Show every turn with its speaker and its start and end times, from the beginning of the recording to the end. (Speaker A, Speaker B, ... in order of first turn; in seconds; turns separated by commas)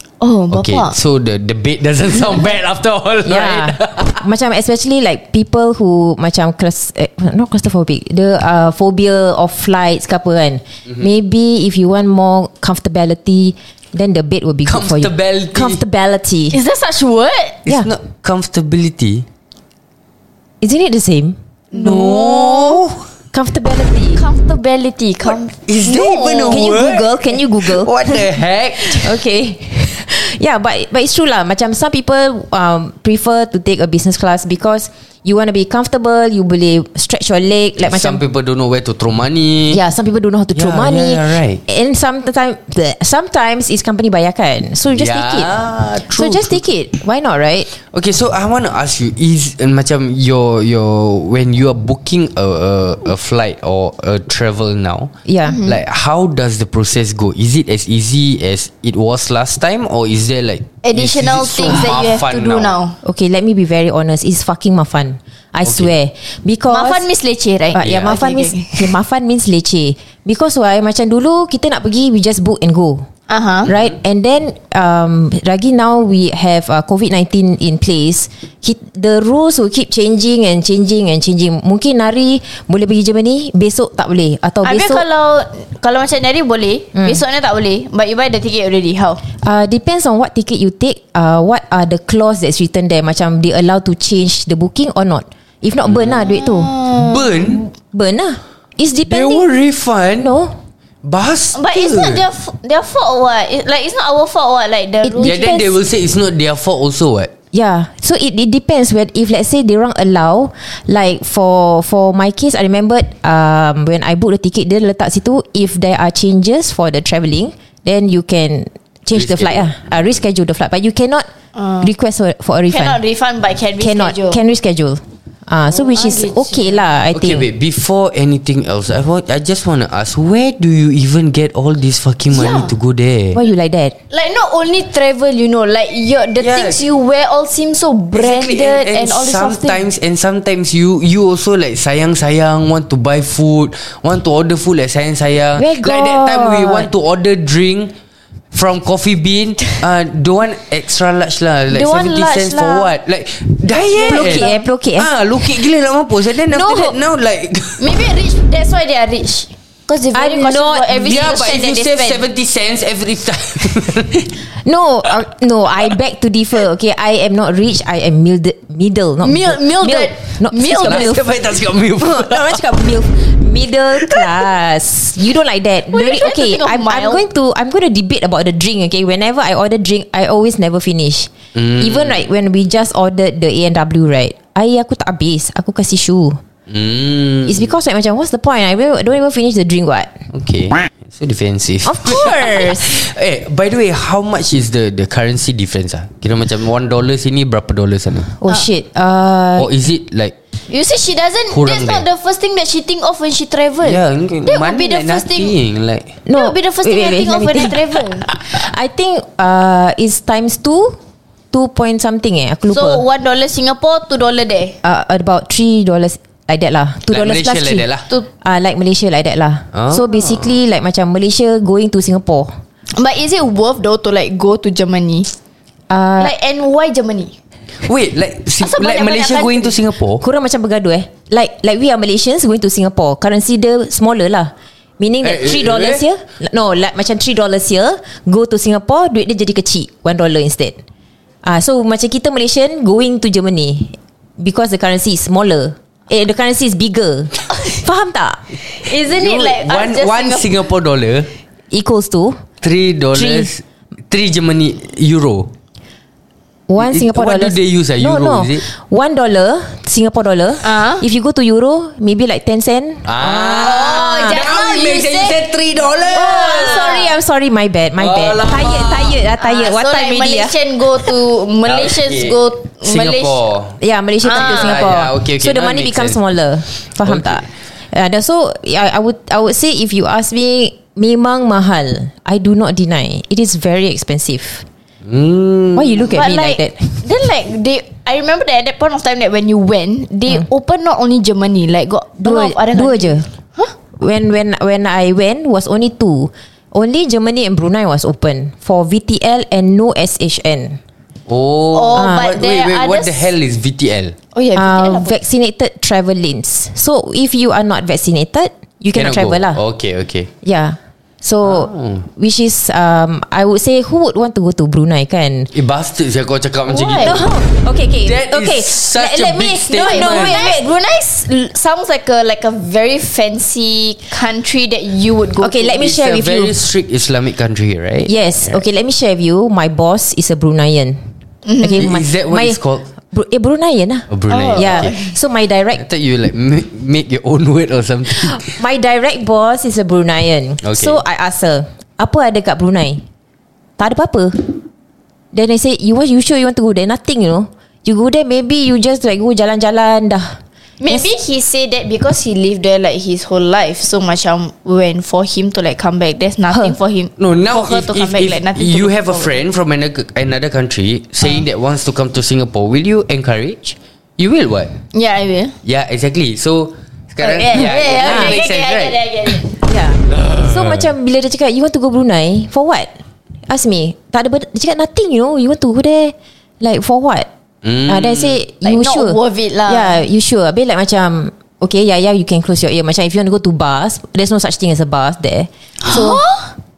Speaker A: 0.2-0.9, Speaker B: 0.5-4.2, Speaker C: 3.2-16.6, Speaker B: 14.7-15.8, Speaker A: 16.5-17.6, Speaker B: 17.6-19.2, Speaker C: 20.6-22.0, Speaker A: 21.7-22.8, Speaker B: 21.7-23.0, Speaker C: 23.3-24.2, Speaker A: 24.1-26.7, Speaker B: 25.3-29.2, Speaker C: 26.5-28.1, Speaker C: 28.9-38.2, Speaker B: 37.8-39.8, Speaker C: 39.7-45.5, Speaker B: 40.5-41.6, Speaker B: 44.9-46.6, Speaker C: 46.1-47.7, Speaker B: 47.8-55.1, Speaker C: 55.2-55.6, Speaker A: 55.5-55.8, Speaker B: 55.6-62.7, Speaker A: 60.8-63.0, Speaker C: 63.0-67.0, Speaker B: 65.7-65.9, Speaker A: 66.7-68.9, Speaker C: 67.7-73.1, Speaker B: 67.8-68.2, Speaker A: 73.3-73.7, Speaker C: 73.7-85.0, Speaker A: 84.6-89.2, Speaker C: 89.4-96.7, Speaker B: 95.8-96.2, Speaker A: 96.2-97.3, Speaker B: 96.9-97.7, Speaker C: 97.8-99.4, Speaker B: 99.1-100.3, Speaker C: 100.2-100.5, Speaker B: 101.0-102.2, Speaker A: 101.5-105.7, Speaker C: 105.0-105.6, Speaker B: 105.2-107.3, Speaker C: 107.5-121.3, Speaker B: 119.1-119.9, Speaker A: 121.5-121.8, Speaker C: 121.8-123.0, Speaker A: 122.7-124.4, Speaker C: 123.8-127.4, Speaker A: 125.7-126.8, Speaker B: 127.1-133.4, Speaker A: 132.3-132.7, Speaker C: 133.3-133.9, Speaker A: 134.1-139.8, Speaker B: 136.4-136.8, Speaker B: 138.1-147.9, Speaker C: 145.6-146.9, Speaker B: 148.5-157.9, Speaker A: 151.7-152.9, Speaker A: 153.8-154.6, Speaker C: 154.0-155.4, Speaker C: 156.4-157.0, Speaker A: 157.8-162.2, Speaker C: 160.1-161.6, Speaker B: 161.0-164.4, Speaker C: 164.6-171.3, Speaker A: 169.2-171.1, Speaker B: 170.8-172.6, Speaker C: 171.9-186.4, Speaker B: 174.0-174.3, Speaker A: 175.9-177.2, Speaker B: 181.5-182.2, Speaker B: 186.7-187.7, Speaker C: 187.4-190.2, Speaker B: 190.3-198.3, Speaker C: 191.8-193.0, Speaker C: 198.4-199.7, Speaker B: 199.6-200.3, Speaker A: 200.7-205.5, Speaker B: 201.5-202.0, Speaker B: 203.8-206.1, Speaker C: 206.2-211.0, Speaker A: 206.3-208.2, Speaker C: 211.5-213.0, Speaker A: 212.7-214.8, Speaker C: 214.8-217.8, Speaker B: 217.1-218.1, Speaker C: 218.4-222.5, Speaker B: 219.7-220.4, Speaker A: 222.9-225.3, Speaker C: 225.9-226.3, Speaker A: 226.2-227.3, Speaker B: 227.8-230.2, Speaker A: 228.6-229.8, Speaker C: 230.2-240.8, Speaker B: 235.2-236.0, Speaker C: 241.4-248.4, Speaker A: 248.7-250.5, Speaker B: 249.1-251.3, Speaker C: 251.7-252.4, Speaker B: 252.6-255.5, Speaker C: 253.1-253.5, Speaker C: 256.7-264.4, Speaker B: 256.8-258.6, Speaker A: 260.6-261.0, Speaker B: 263.0-266.9, Speaker A: 263.6-265.4, Speaker A: 266.0-267.1, Speaker C: 266.1-270.5, Speaker B: 268.0-269.2, Speaker A: 269.4-273.4, Speaker B: 271.6-273.8, Speaker C: 273.8-284.6, Speaker A: 274.2-274.8, Speaker B: 274.3-276.2, Speaker B: 277.0-277.4, Speaker B: 285.0-286.1, Speaker C: 285.7-287.0, Speaker A: 286.1-293.7, Speaker C: 292.2-293.3, Speaker C: 294.0-300.8, Speaker B: 301.3-304.1, Speaker A: 301.7-303.3, Speaker C: 301.9-302.3, Speaker A: 304.3-305.1, Speaker C: 304.5-309.6, Speaker B: 308.9-310.3, Speaker C: 310.4-315.5, Speaker B: 311.4-312.1, Speaker B: 315.5-317.3, Speaker A: 316.7-317.2, Speaker C: 317.0-320.6, Speaker B: 318.0-320.4, Speaker A: 319.7-325.8, Speaker C: 325.4-326.6, Speaker B: 325.7-328.6, Speaker C: 328.1-331.0, Speaker A: 331.4-331.8, Speaker C: 331.6-332.6, Speaker B: 331.7-332.9, Speaker C: 333.1-335.8, Speaker B: 334.1-334.9, Speaker A: 334.3-335.1, Speaker B: 335.8-338.6, Speaker C: 338.1-343.0, Speaker B: 340.6-341.0, Speaker C: 343.8-344.5, Speaker C: 345.3-351.1, Speaker A: 350.8-359.3, Speaker B: 357.2-364.7, Speaker A: 364.9-365.5, Speaker B: 365.6-369.4, Speaker A: 367.2-369.5, Speaker C: 367.6-368.4, Speaker C: 369.6-377.3, Speaker B: 370.1-370.9, Speaker B: 377.6-378.4, Speaker C: 377.9-386.2, Speaker A: 378.6-380.0, Speaker A: 385.8-386.5